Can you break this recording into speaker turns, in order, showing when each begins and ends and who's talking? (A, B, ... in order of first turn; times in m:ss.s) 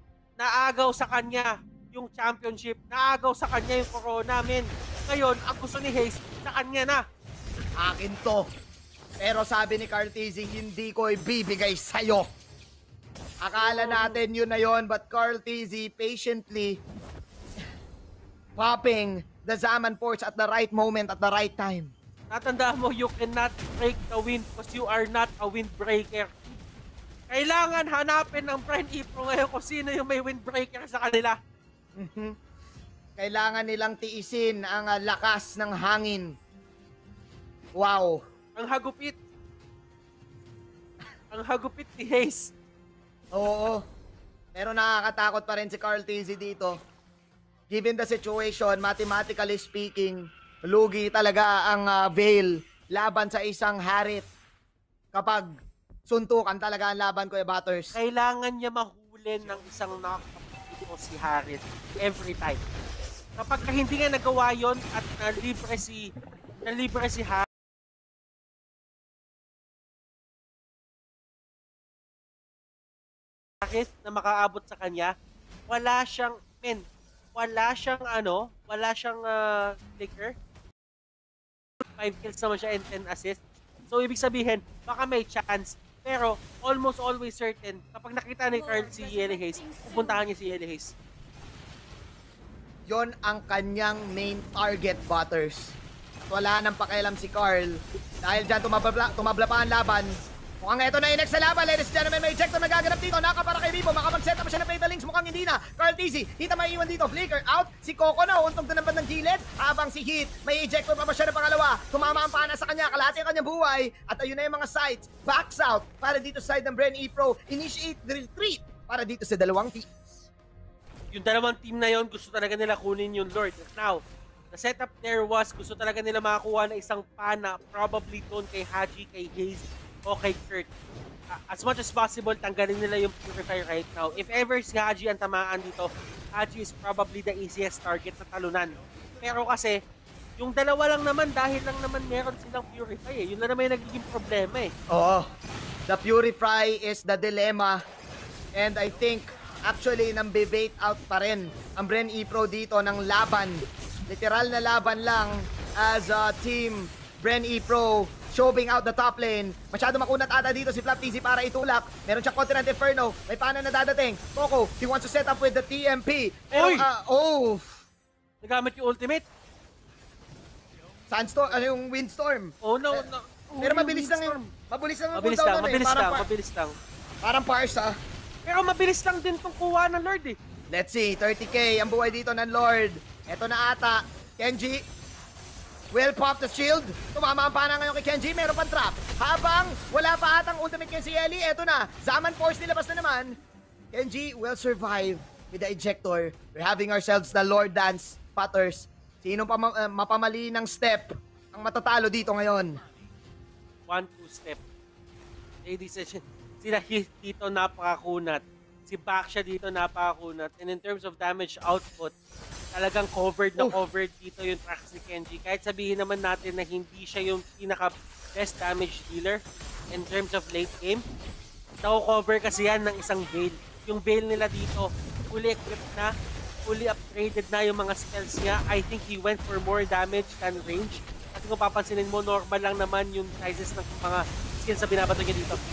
0:00.4-0:07.0 A
0:07.8-0:08.4 B
0:09.2-0:12.3 B
0:13.4-0:16.8 B
0:13.6-0:14.2 A
0:18.6-0:21.9 B
0:22.3-0:26.3 A
0:27.3-0:31.4 A
0:32.0-0:32.3 B
0:33.2-0:36.3 B
0:37.8-0:38.2 B
0:38.6-0:39.2 A
0:41.3-0:42.5 A
0:43.3-0:43.8 B
0:44.5-0:46.7 B
0:47.7-0:54.3 B
0:55.1-0:55.5 B
0:56.1-0:58.0 B
0:57.9-1:02.6 A
1:03.4-1:06.0 A
1:06.6-1:07.5 A
1:13.6-1:15.1 A
1:15.7-1:16.8 A
1:17.3-1:20.3 A
1:22.0-1:30.9 A
1:32.9-1:35.8 B
1:36.3-2:00.3 B
2:01.1-2:04.0 A
2:04.5-2:10.7 A
2:11.3-2:18.7 A
2:19.2-2:19.7 A
2:20.4-2:24.7 A
2:24.9-2:25.3 B
2:25.9-2:27.8 B
2:28.6-2:47.8 B
2:46.5-2:46.8 A
2:48.4-2:49.2 A
2:51.1-2:53.0 B
2:52.6-2:54.5 A
2:53.6-2:56.3 B
2:55.1-2:56.7 A
2:57.2-2:57.9 B
2:58.4-3:00.4 A
3:00.7-3:04.8 B
3:05.9-3:13.3 B
3:13.9-3:22.7 B
3:23.9-3:24.6 A
3:25.6-3:32.1 A
3:32.7-3:39.4 A
3:39.9-3:41.0 A
3:41.8-3:46.1 A
3:46.6-3:55.6 A